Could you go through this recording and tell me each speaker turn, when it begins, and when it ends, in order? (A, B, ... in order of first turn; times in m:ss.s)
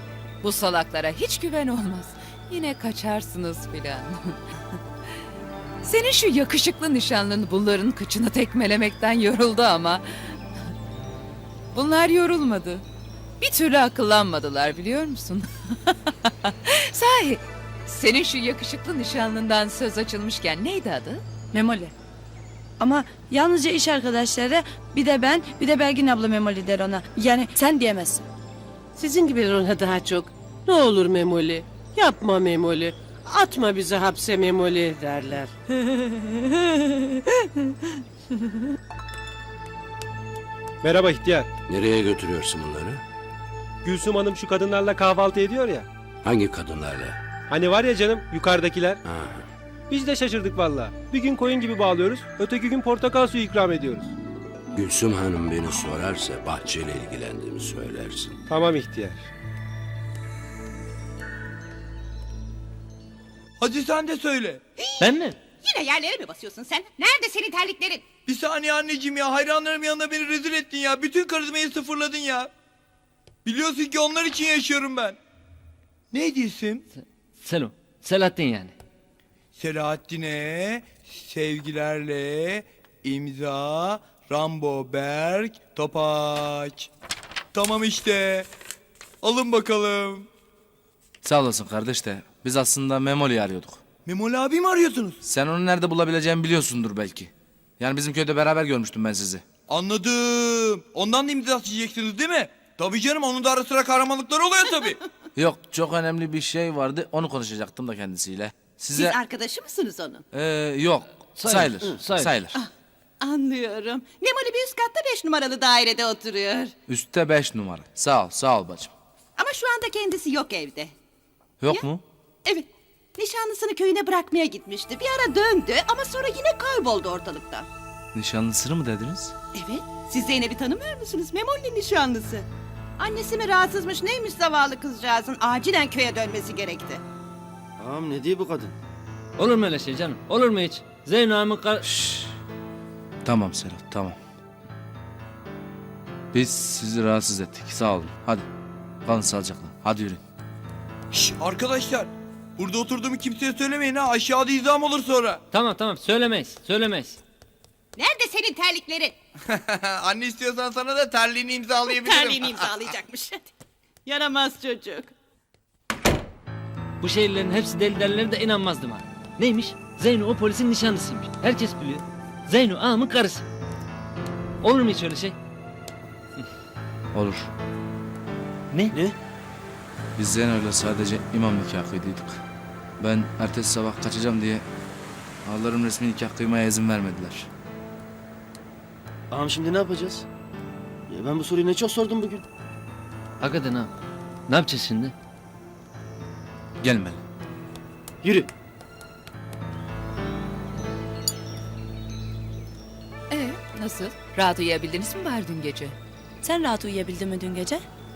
0:00.4-0:04.6 A
0:05.8-0:10.4 A
0:11.7-0:12.8 A
0:13.4-0:21.2 A
0:21.5-0:21.9 B
0:22.8-0:28.2 B
0:29.0-0:35.5 C
0:40.8-0:41.5 D
0:41.7-0:43.0 E
0:43.8-0:45.8 D
0:46.2-0:47.2 E
0:47.5-0:49.0 D
0:49.0-0:49.5 E
0:49.9-0:54.1 D
0:54.7-0:58.4 E
0:58.5-0:59.2 D
1:03.6-1:04.6 F
1:04.8-1:08.1 G
1:05.0-1:05.4 H
1:08.2-1:12.5 F
1:13.4-1:15.2 F
1:16.1-1:16.8 F
1:17.4-1:18.7 H
1:19.5-1:26.9 F
1:27.5-1:28.5 F
1:29.2-1:30.3 F
1:31.2-1:33.8 I
1:34.0-1:35.2 F
1:35.2-1:39.4 I
1:39.7-1:45.0 F
1:45.3-1:49.2 I
1:49.0-1:50.2 G
1:50.3-1:52.5 I
1:51.4-1:52.3 H
1:53.2-1:56.7 G
1:56.9-1:58.9 I
1:59.4-2:00.9 G
2:01.6-2:02.0 I
2:02.4-2:07.7 G
2:08.1-2:09.3 I
2:09.5-2:12.5 G
2:13.0-2:17.0 G
2:17.8-2:18.7 J
2:19.4-2:21.8 H
2:21.8-2:22.3 I
2:23.2-2:24.2 I
2:26.3-2:28.4 I
2:29.0-2:30.2 I
2:31.1-2:35.4 F
2:35.5-2:37.2 H
2:38.0-2:39.2 G
2:39.4-2:42.8 F
2:41.8-2:43.5 G
2:44.0-2:45.1 G
2:47.0-2:53.4 H
2:54.6-2:55.4 H
2:57.1-2:57.5 I
3:00.2-3:02.4 I
3:03.0-3:04.6 I
3:05.4-3:07.5 I
3:09.3-3:10.2 J
3:11.1-3:12.4 J
3:13.4-3:13.9 H
3:14.5-3:15.1 H
3:16.8-3:17.2 I
3:18.2-3:18.5 J
3:23.3-3:26.0 A
3:26.4-3:27.8 B